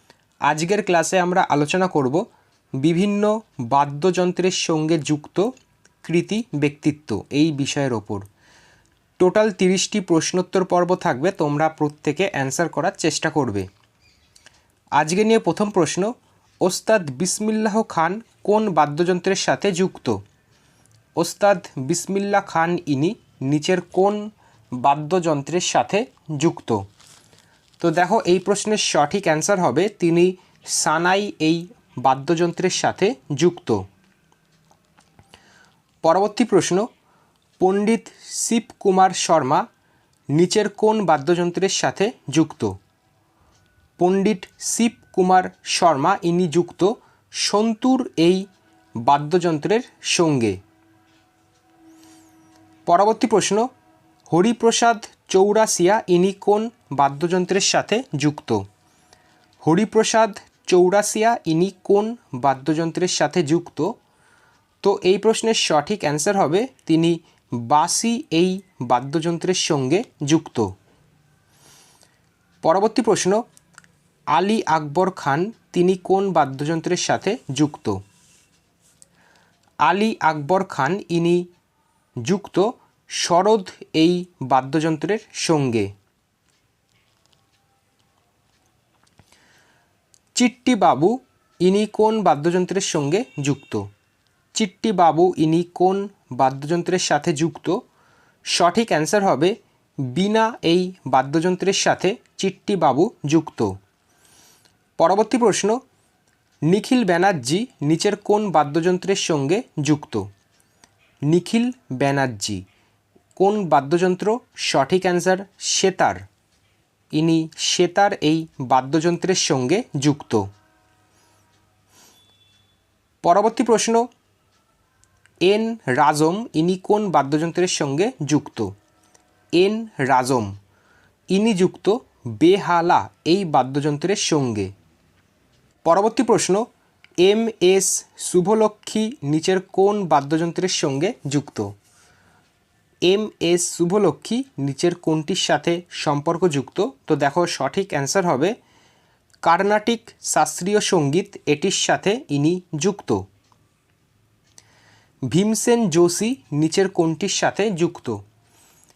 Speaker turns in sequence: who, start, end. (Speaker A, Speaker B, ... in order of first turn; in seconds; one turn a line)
Speaker A: 0.5-2.2
Speaker A: 2.8-5.5
Speaker A: 6.0-8.2
Speaker A: 9.2-13.7
Speaker A: 15.0-16.1
Speaker A: 16.6-20.2
Speaker A: 21.2-24.2
Speaker A: 24.8-26.9
Speaker A: 27.8-33.9
Speaker A: 36.0-36.9
Speaker A: 37.6-39.6
Speaker A: 40.3-42.8
Speaker A: 44.0-48.5
Speaker A: 49.0-50.6
Speaker A: 52.9-53.7
Speaker A: 54.3-58.6
Speaker A: 59.6-64.0
Speaker A: 64.8-70.7
Speaker A: 72.6-73.4
Speaker A: 74.3-78.0
Speaker A: 79.8-81.5
Speaker A: 82.2-85.9
Speaker A: 90.3-93.9
Speaker A: 94.5-97.8
Speaker A: 98.5-103.7
Speaker A: 105.0-105.8
Speaker A: 106.7-110.3
Speaker A: 111.3-112.6
Speaker A: 113.4-116.2
Speaker A: 117.1-120.5
Speaker A: 123.2-124.1
Speaker A: 125.4-128.7
Speaker A: 129.6-130.5
Speaker A: 131.3-134.7
Speaker A: 135.8-136.7
Speaker A: 137.2-141.7
Speaker A: 143.1-148.6
Speaker A: 149.4-153.2
Speaker A: 155.3-158.2